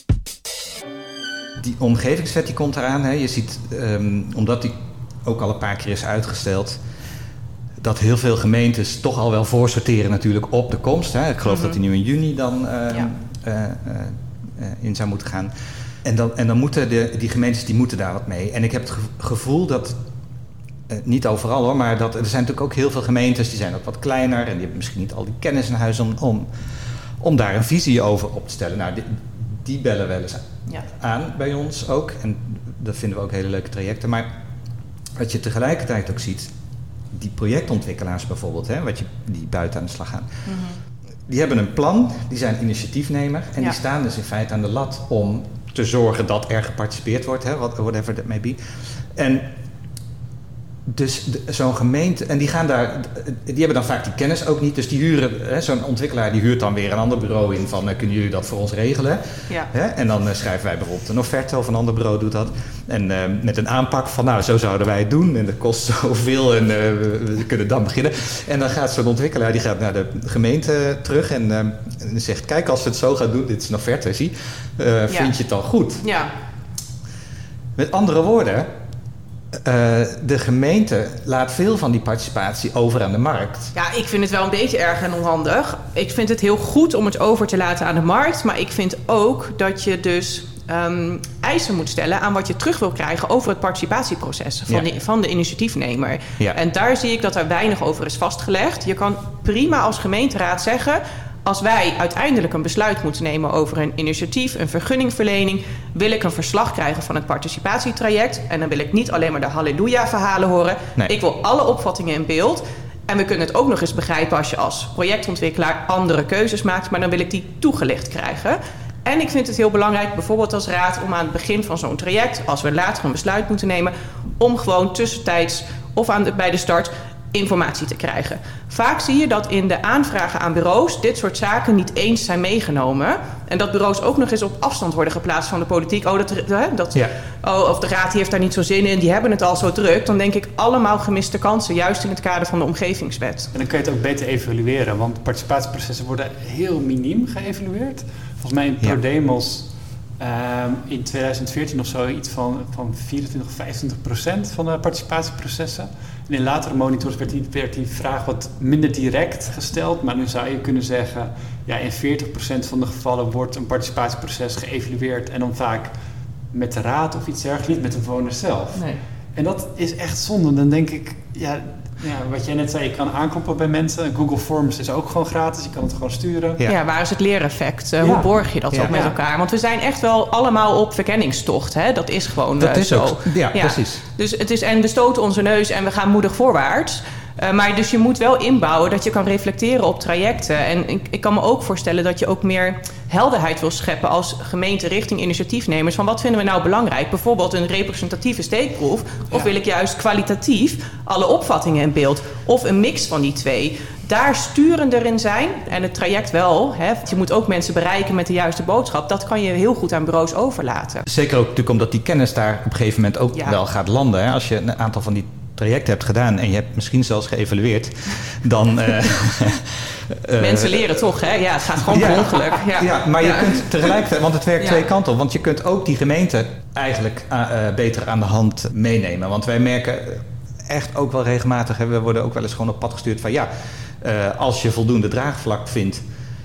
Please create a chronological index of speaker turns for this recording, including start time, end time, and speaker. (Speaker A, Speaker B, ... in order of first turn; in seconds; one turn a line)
Speaker A: 1.6-6.8
Speaker A: 7.8-15.5
Speaker B: 11.4-11.8
Speaker A: 16.0-20.0
Speaker A: 20.9-26.5
Speaker A: 27.2-34.3
Speaker A: 35.1-36.5
Speaker A: 37.1-40.3
Speaker B: 40.5-40.8
Speaker A: 41.3-48.6
Speaker A: 49.1-49.5
Speaker A: 50.9-76.0
Speaker B: 75.1-75.3
Speaker B: 76.0-76.3
Speaker A: 77.8-78.7
Speaker A: 79.5-83.7
Speaker B: 83.7-143.5
Speaker C: 143.5-165.9
Speaker C: 166.5-176.6
Speaker B: 168.7-169.0
Speaker B: 176.6-211.1
Speaker C: 178.0-178.3
Speaker A: 178.7-179.0
Speaker C: 178.8-179.1
Speaker A: 182.6-184.0
Speaker A: 211.1-221.1
Speaker B: 220.4-223.7
Speaker A: 221.9-233.5
Speaker A: 234.0-236.0